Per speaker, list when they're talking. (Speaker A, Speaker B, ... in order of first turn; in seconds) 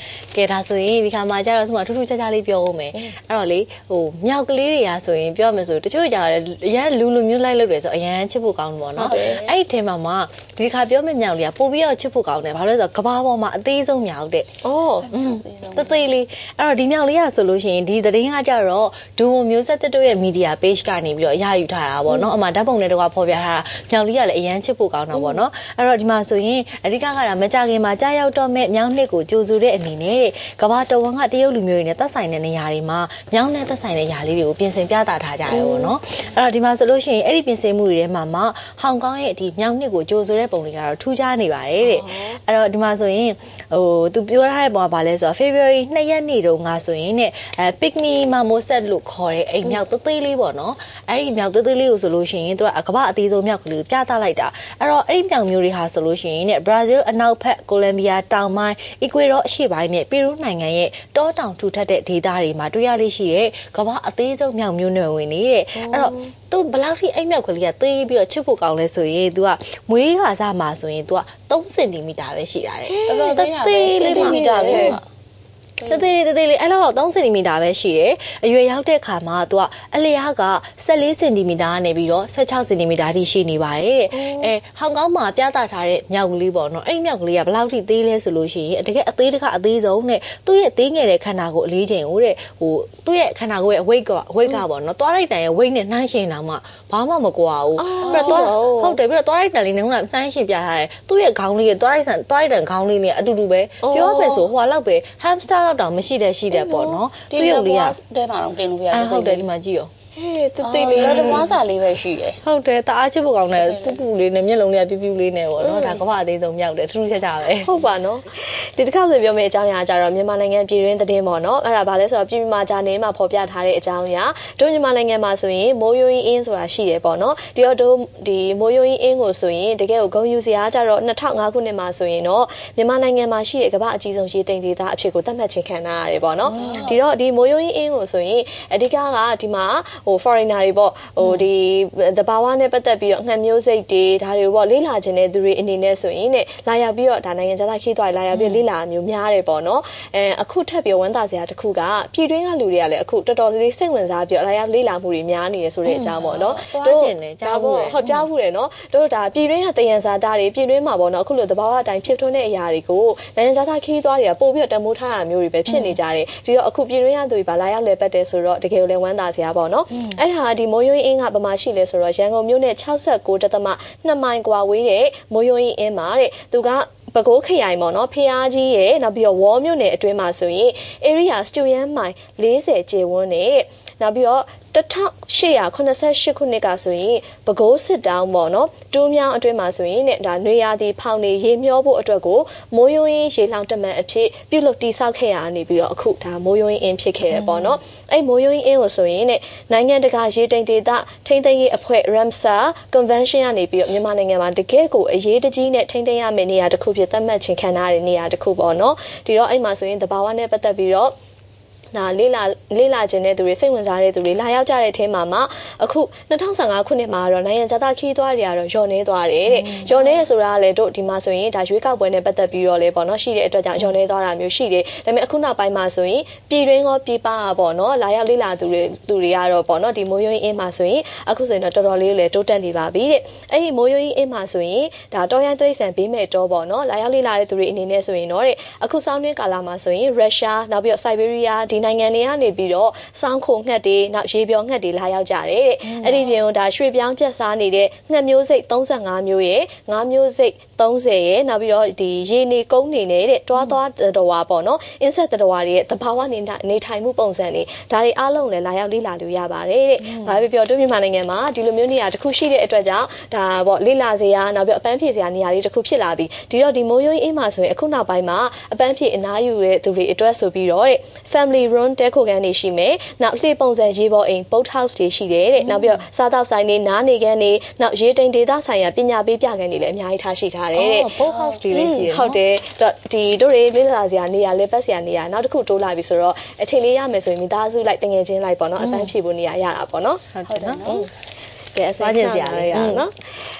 Speaker A: 0.3-14.5, 15.1-75.0, 75.9-108.0, 108.9-109.9, 111.0-111.4, 112.4-117.7, 136.5-136.9, 148.3-148.6, 155.8-158.2, 165.7-166.0, 197.3-197.8, 219.5-220.1, 245.9-246.3, 275.6-276.0, 280.7-282.4, 288.8-289.1, 290.3-290.9, 292.0-293.0
Speaker B: 8.9-9.4, 14.6-15.1, 25.1-25.4, 35.5-35.9, 41.8-42.4, 65.8-66.2, 72.9-73.3, 74.0-75.0, 84.1-84.5, 97.8-99.0, 103.8-104.5, 106.5-107.0, 110.1-111.5, 115.6-116.0, 117.6-211.1, 211.9-281.1, 281.7-290.2, 291.7-293.1
Speaker C: 9.0-9.6, 15.0-16.0, 73.1-75.0, 75.8-76.1, 98.0-98.5, 107.3-109.5, 110.6-112.4, 113.5-114.0, 136.5-136.9, 290.4-291.1